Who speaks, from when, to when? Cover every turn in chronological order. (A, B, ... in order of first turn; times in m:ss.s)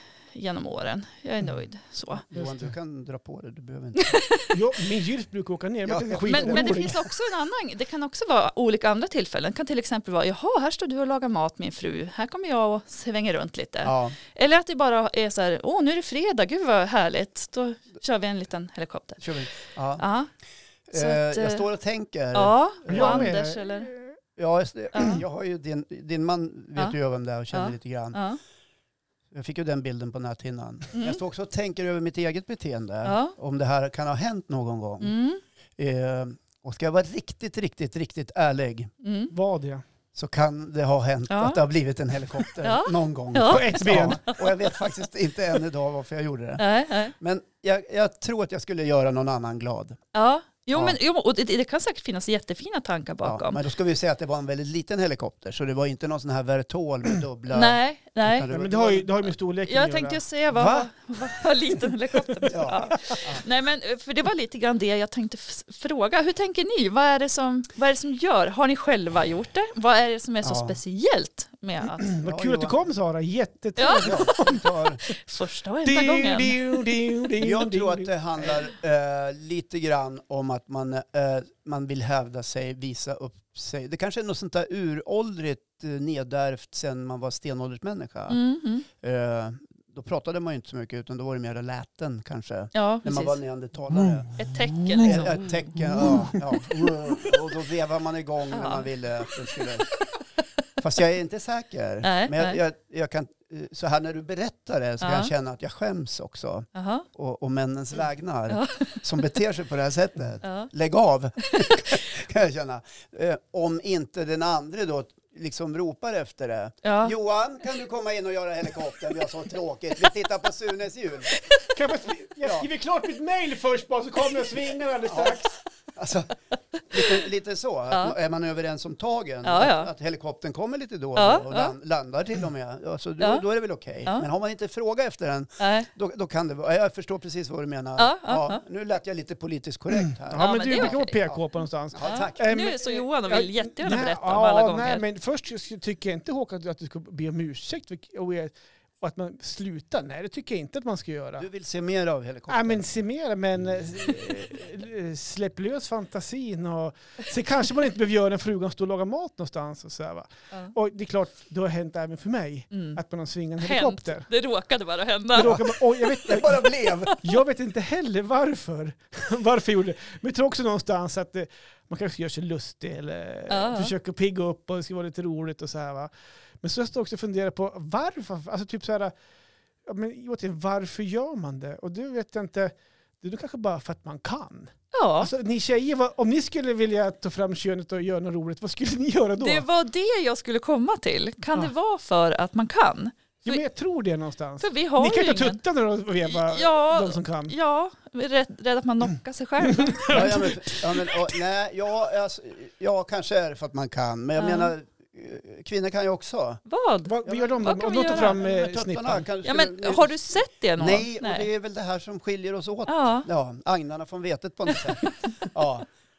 0:00.3-0:02.2 A
0:02.2-0:04.2 B
0:02.3-0:02.7 C
0:04.0-0:04.5 A
0:04.5-0:07.0 C
0:05.8-0:07.1 B
0:06.2-0:20.3 A
0:13.8-0:14.2 B
0:19.2-0:20.0 B
0:20.9-0:23.3 B
0:20.9-0:21.7 A
0:22.3-0:23.9 A
0:22.9-0:24.2 C
0:24.4-0:28.2 B
0:24.9-0:25.2 A
0:27.5-0:28.4 A
0:29.3-0:35.1 B
0:33.0-0:33.3 A
0:35.0-0:35.4 A
0:35.8-0:38.9 B
0:39.0-0:39.3 A
0:39.3-0:39.8 C
0:40.1-0:50.0 B
0:41.3-0:41.6 A
0:42.6-0:44.6 A
0:43.5-0:44.2 C
0:46.6-0:47.1 A
0:50.1-0:53.6 A
0:53.2-0:59.1 B
0:57.5-0:58.5 A
0:58.5-1:00.9 C
0:59.7-1:12.1 A
1:02.5-1:03.4 B
1:10.4-1:10.8 B
1:12.0-1:15.1 C
1:12.2-1:12.8 B
1:13.8-1:14.5 A
1:14.0-1:15.0 B
1:15.3-1:16.8 A
1:15.8-1:18.6 C
1:17.4-1:28.4 B
1:28.3-1:28.8 A
1:29.0-1:34.3 B
1:32.7-1:33.4 A
1:34.4-1:35.7 A
1:34.8-1:35.0 C
1:35.0-1:39.9 B
1:35.8-1:36.2 C
1:38.5-1:38.9 A
1:40.8-2:01.3 B
1:42.0-1:42.6 A
1:45.0-1:45.3 A
1:46.7-1:47.0 A
1:48.5-1:49.0 A
1:50.4-1:50.7 A
1:56.8-1:57.1 A
2:01.7-2:05.6 C
2:02.4-2:02.7 B
2:05.1-2:05.4 B
2:06.0-2:06.4 B
2:06.9-2:22.5 B
2:07.9-2:08.2 A
2:09.4-2:09.9 A
2:11.2-2:11.7 A
2:13.2-2:13.4 A
2:15.6-2:15.9 A
2:18.0-2:18.6 A
2:20.2-2:31.5 C
2:20.3-2:21.2 A
2:22.0-2:25.0 A
2:31.4-2:32.8 B
2:32.5-2:44.3 C
2:42.7-2:43.0 A
2:43.6-2:45.7 A
2:45.3-2:46.6 C
2:45.4-2:45.6 B
2:46.2-2:47.2 B
2:47.2-2:56.1 C
2:53.5-2:53.9 A
2:56.6-2:59.1 C
2:59.8-3:09.6 C
3:04.9-3:05.3 A
3:09.4-3:13.6 A
3:13.4-3:17.5 C
3:14.6-3:15.6 A
3:16.2-3:20.5 A
3:19.7-3:20.5 C
3:20.1-3:26.6 B
3:24.4-3:24.7 A
3:26.7-3:28.4 A
3:27.1-3:29.3 C
3:27.2-3:35.9 B
3:29.4-3:31.5 A
3:32.9-3:33.3 A